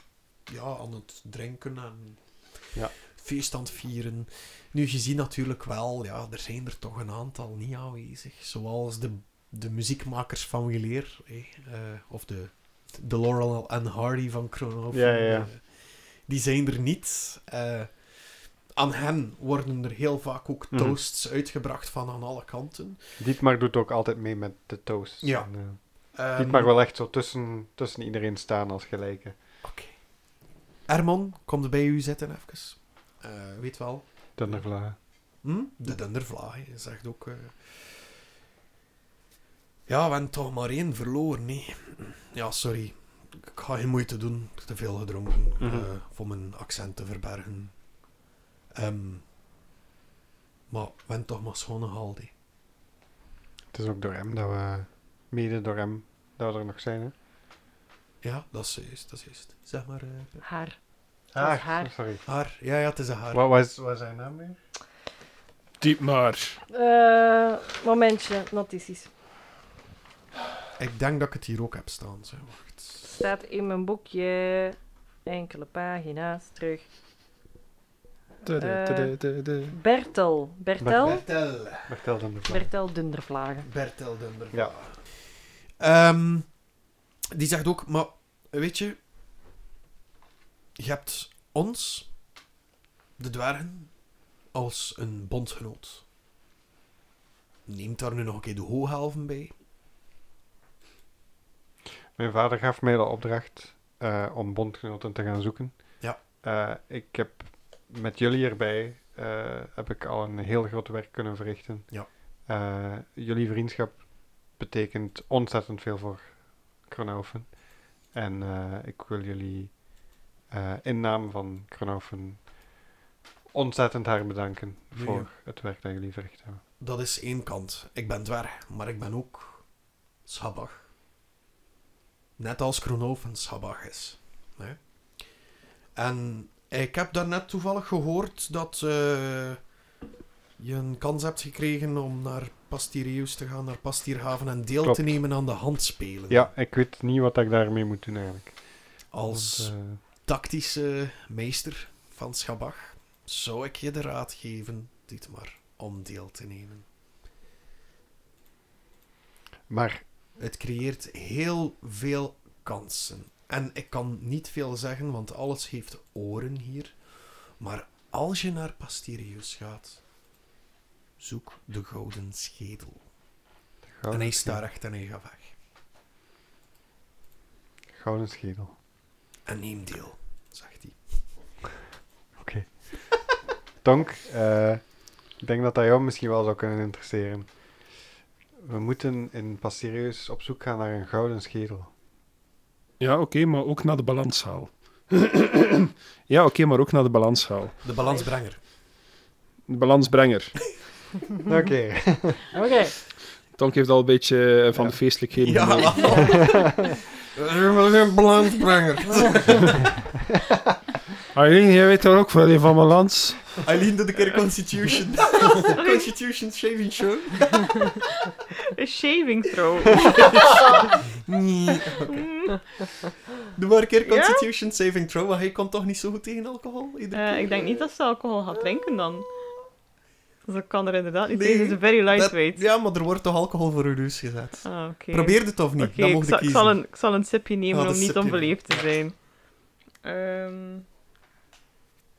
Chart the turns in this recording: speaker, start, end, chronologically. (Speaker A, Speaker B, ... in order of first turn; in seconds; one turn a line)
Speaker A: 0.5-23.2
Speaker B: 14.9-15.5
Speaker B: 20.7-21.0
Speaker B: 23.2-29.4
Speaker A: 25.2-26.7
Speaker A: 29.6-38.1
Speaker B: 34.4-35.0
Speaker A: 39.9-48.0
Speaker B: 45.6-45.9
Speaker A: 48.7-49.2
Speaker A: 50.7-52.3
Speaker B: 53.7-57.1
Speaker A: 58.2-60.5
Speaker C: 60.4-61.9
Speaker B: 61.3-62.2
Speaker A: 62.2-63.5
Speaker B: 63.3-64.6
Speaker D: 65.8-66.6
Speaker C: 66.7-69.1
Speaker A: 70.8-73.1
Speaker C: 73.1-76.9
Speaker D: 78.4-79.7
Speaker C: 78.6-81.3
Speaker B: 80.8-82.7
Speaker A: 81.0-82.0
Speaker C: 82.5-83.7
Speaker A: 83.6-86.7
Speaker A: 87.3-89.0
Speaker A: 90.8-92.2
Speaker A: 93.2-96.0
Speaker A: 97.7-99.5
Speaker B: 102.1-122.8
Speaker B: 123.5-126.6
Speaker A: 124.9-125.3
Speaker A: 126.8-130.9
Speaker A: 132.4-135.4
Speaker A: 135.9-139.6
Speaker A: 140.6-146.5
Speaker B: 144.8-145.3
Speaker B: 146.3-150.0
Speaker A: 149.1-156.8
Speaker B: 159.7-160.0
Speaker A: 160.4-170.0
Speaker A: 171.2-173.1
Speaker B: 173.9-174.6
Speaker A: 174.1-175.5
Speaker B: 177.9-178.8
Speaker A: 179.4-181.3
Speaker B: 182.4-187.9
Speaker B: 188.6-191.9
Speaker D: 193.0-197.8
Speaker A: 197.8-198.6
Speaker D: 199.7-200.8
Speaker B: 201.4-202.5
Speaker C: 202.5-203.0
Speaker D: 203.5-206.3
Speaker A: 205.3-206.8
Speaker B: 206.4-206.8
Speaker A: 207.3-209.8
Speaker D: 211.3-213.6
Speaker A: 213.6-217.7
Speaker E: 215.6-216.1
Speaker E: 218.8-220.9
Speaker A: 221.2-222.2
Speaker E: 222.1-222.5
Speaker A: 223.5-227.8
Speaker E: 224.1-224.4
Speaker E: 227.1-229.5
Speaker E: 230.4-232.6
Speaker A: 231.3-236.8
Speaker E: 234.6-240.8
Speaker A: 237.7-238.9